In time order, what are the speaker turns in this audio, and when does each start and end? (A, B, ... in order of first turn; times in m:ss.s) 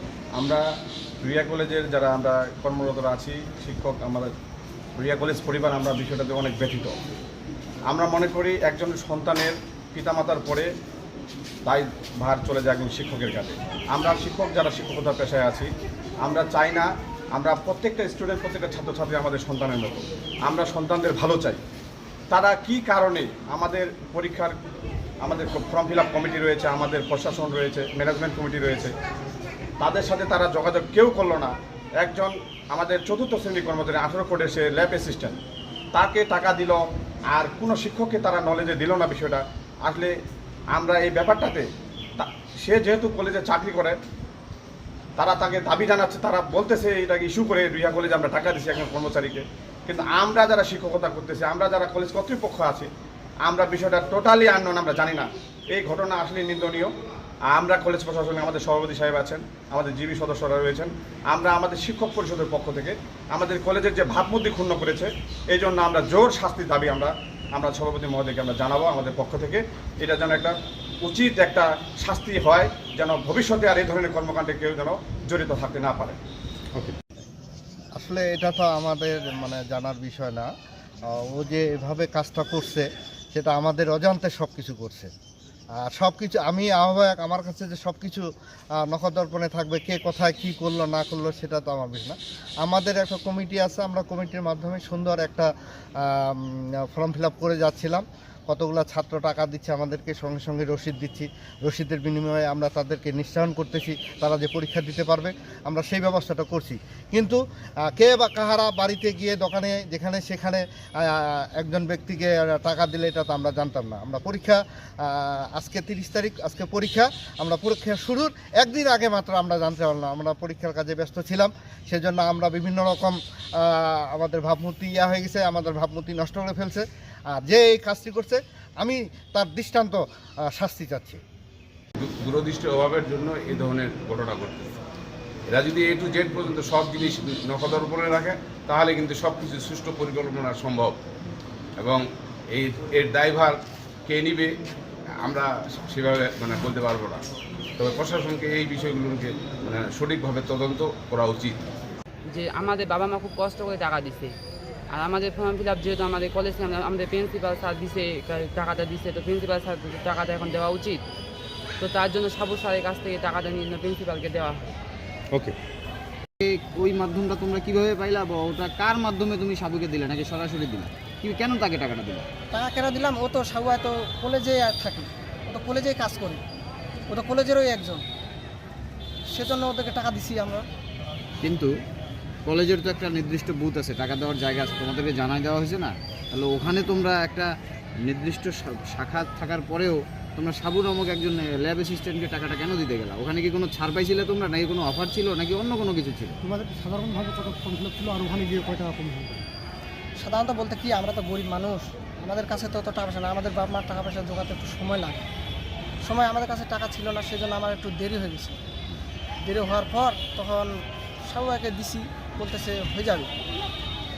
0:00.4-0:00.6 A
0:01.2-0:04.3 A
0:05.0-0:07.0 A
0:07.9-0:10.7 A
0:11.7-0:15.7 A
0:16.2-0:21.6 A
0:22.3-0:24.6 A
0:25.2-0:28.9 A
0:29.8-0:35.4 A
0:35.9-0:40.1 A
0:40.7-0:44.0 A
0:45.2-0:52.9 A
0:53.4-0:56.9 A
0:57.5-1:16.2 A
1:18.0-1:20.5 B
1:21.1-1:25.1 B
1:25.8-1:28.2 B
1:28.8-1:35.5 B
1:36.0-2:10.0 B
2:10.6-2:11.2 B
2:12.0-2:14.8 C
2:15.5-2:21.0 C
2:21.8-2:24.5 C
2:25.2-2:27.2 C
2:27.8-2:31.6 C
2:32.3-2:34.3 D
2:34.9-2:41.0 D
2:41.8-2:44.6 D
2:46.4-2:52.3 E
2:52.5-2:56.4 F
2:57.1-2:58.0 F
2:59.3-3:00.6 F
3:01.4-3:01.7 E
3:02.5-3:07.5 E
3:08.1-3:16.4 E
3:16.4-3:19.5 G
3:20.2-3:25.3 F
3:26.0-3:28.6 F
3:29.4-3:30.7 F
3:31.2-3:33.3 F